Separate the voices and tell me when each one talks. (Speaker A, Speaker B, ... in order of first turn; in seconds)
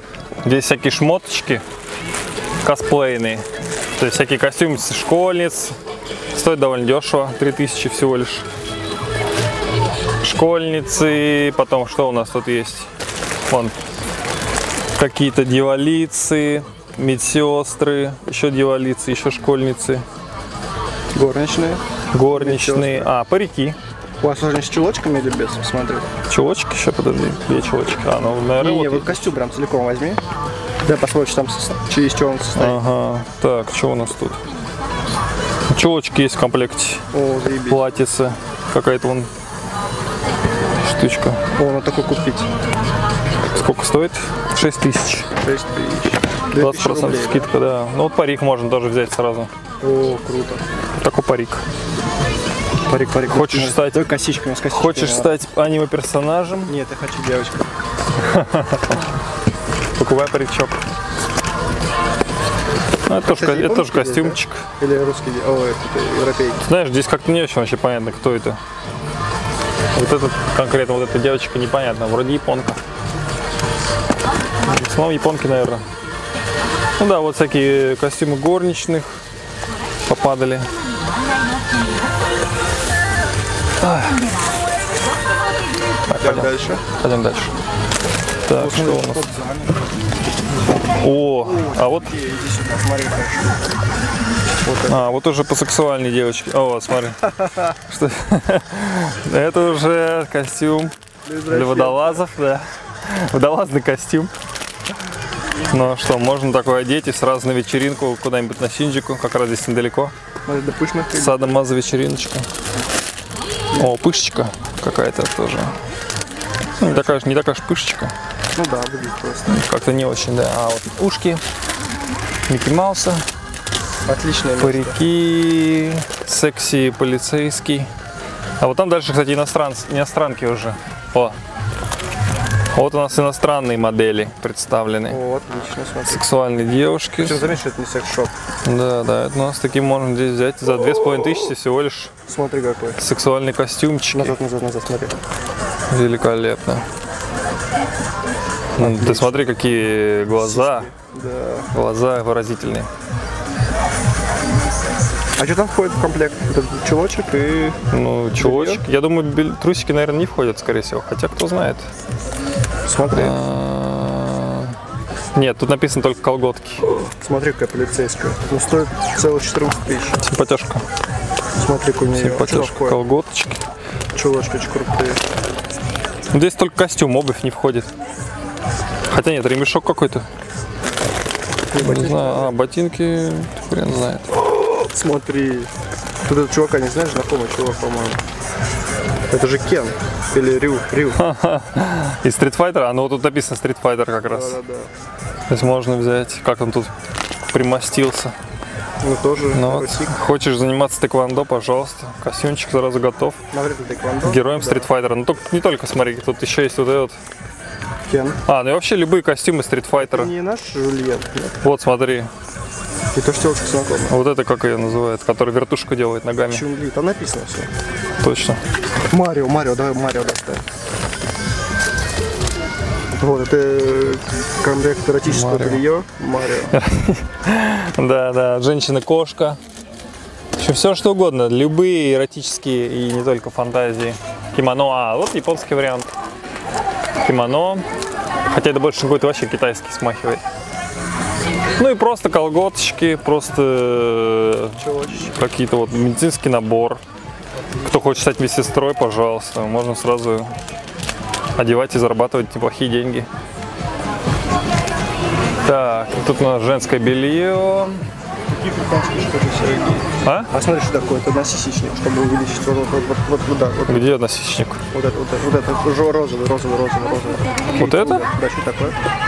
Speaker A: 0.4-1.6, 2.6-3.4, 4.0-5.8, 6.3-8.5, 10.2-12.9, 13.5-13.8, 14.9-20.0, 22.1-23.8, 26.3-29.3, 32.5-34.4, 35.7-37.0, 37.7-39.3, 40.8-41.4, 43.5-45.3, 46.5-49.5, 51.0-51.6, 53.2-54.1, 54.7-56.8, 58.2-59.0, 60.0-60.8, 63.0-64.6, 66.7-68.6, 69.9-72.8, 74.6-75.8, 77.0-79.2, 80.0-80.7, 83.8-84.2, 86.1-87.5, 88.5-89.2, 91.0-92.1, 94.8-100.9, 101.5-104.3, 105.7-110.1, 111.1-112.5, 113.7-115.8, 116.8-118.1, 119.5-121.4, 122.5-123.2, 124.6-127.9, 128.6-131.4, 132.7-135.2, 136.1-137.6, 138.6-142.1, 143.0-144.4, 145.9-146.8, 148.8-150.9, 151.7-152.9, 157.9-161.8, 163.1-164.8, 165.3-166.8, 170.2-170.8, 172.1-173.6, 176.3-177.9, 179.1-180.2, 181.8-184.4, 191.2-194.6, 195.5-196.9, 197.5-198.3, 199.5-203.4, 204.2-207.2, 208.4-210.3, 211.6-212.3, 214.1-216.6, 218.2-218.6, 225.2-225.8, 226.7-229.6, 230.6-236.1, 237.2-237.8, 238.5-240.4, 241.8-247.0, 247.8-250.5, 251.6-253.3, 255.6-258.0, 260.2-260.5, 263.9-264.8, 267.7-268.2
Speaker B: 21.1-23.1, 24.2-26.1, 28.6-30.2, 30.8-32.8, 37.1-37.9, 41.5-42.5, 45.4-47.5, 49.8-50.6, 52.9-55.4, 56.6-57.7, 63.2-66.6, 86.2-86.8, 88.5-89.8, 91.4-93.6, 94.6-95.0, 101.2-102.2, 110.5-111.5, 118.5-119.6, 124.0-125.0, 135.1-136.2, 137.2-138.3, 142.3-143.0, 144.1-145.2, 148.8-149.4, 150.4-151.7, 155.4-157.8, 158.4-158.8, 162.8-163.4, 167.0-170.2, 171.6-173.0, 174.1-175.2, 181.7-182.5, 184.8-185.7, 186.2-188.2, 189.3-191.2, 194.2-194.9, 199.0-200.2, 203.5-204.9, 208.1-208.4, 209.9-211.6, 213.1-214.2, 216.5-217.7, 219.1-220.6, 223.2-226.7, 244.8-245.3, 258.5-264.1, 264.9-269.0